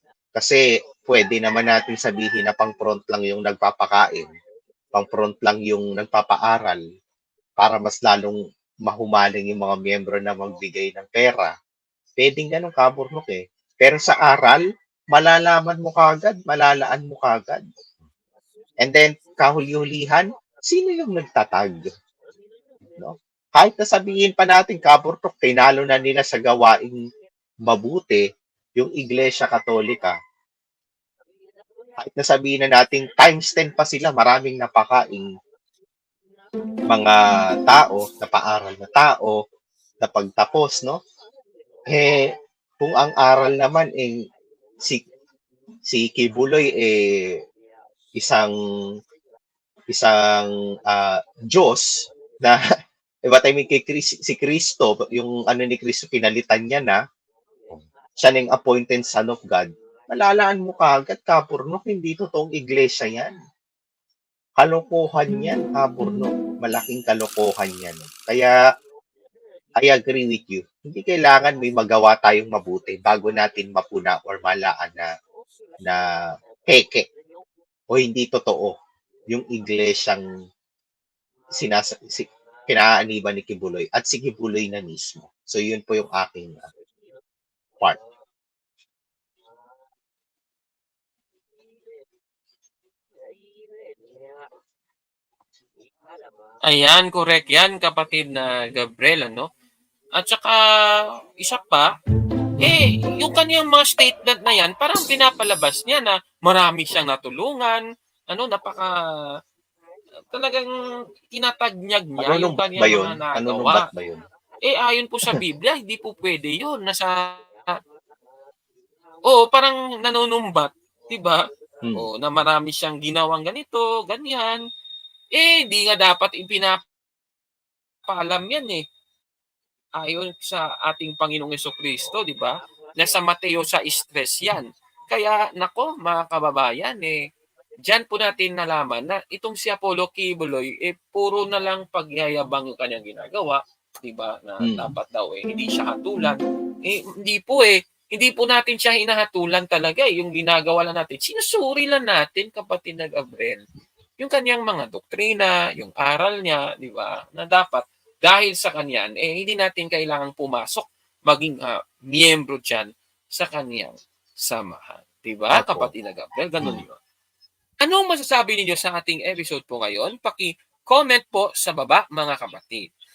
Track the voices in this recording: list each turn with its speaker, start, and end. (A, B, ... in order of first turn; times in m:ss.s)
0:00.4-0:04.3 A
0:05.0-0:06.8 A
0:07.6-0:11.5 A
0:12.2-0:17.6 A
0:18.8-0:21.9 A
0:23.0-0:27.0 A
0:27.7-0:28.2 A
0:28.8-0:30.1 A
0:32.0-0:35.3 A
0:36.9-0:39.4 A
0:40.0-0:41.0 A
0:41.9-0:44.2 A
0:45.9-0:47.4 A
0:48.2-0:48.5 A
0:49.9-0:52.6 A
0:53.3-0:57.0 A
0:57.7-1:03.3 A
1:04.6-1:08.6 A
1:09.8-1:15.1 A
1:16.7-1:17.0 A
1:17.9-1:18.8 A
1:19.3-1:20.2 A
1:21.6-1:26.7 A
1:36.7-1:39.5 B
1:40.2-1:41.9 B
1:42.6-1:48.9 B
1:50.3-1:50.7 B
1:51.3-1:53.8 B
1:52.2-1:54.2 A
1:54.6-1:57.8 B
1:59.3-2:01.4 B
2:02.0-2:04.6 B
2:05.3-2:06.8 B
2:08.1-2:08.8 B
2:10.0-2:17.2 B
2:17.9-2:33.6 B
2:24.6-2:24.9 A
2:34.2-2:47.0 B
2:45.5-2:45.9 A
2:47.8-2:52.9 B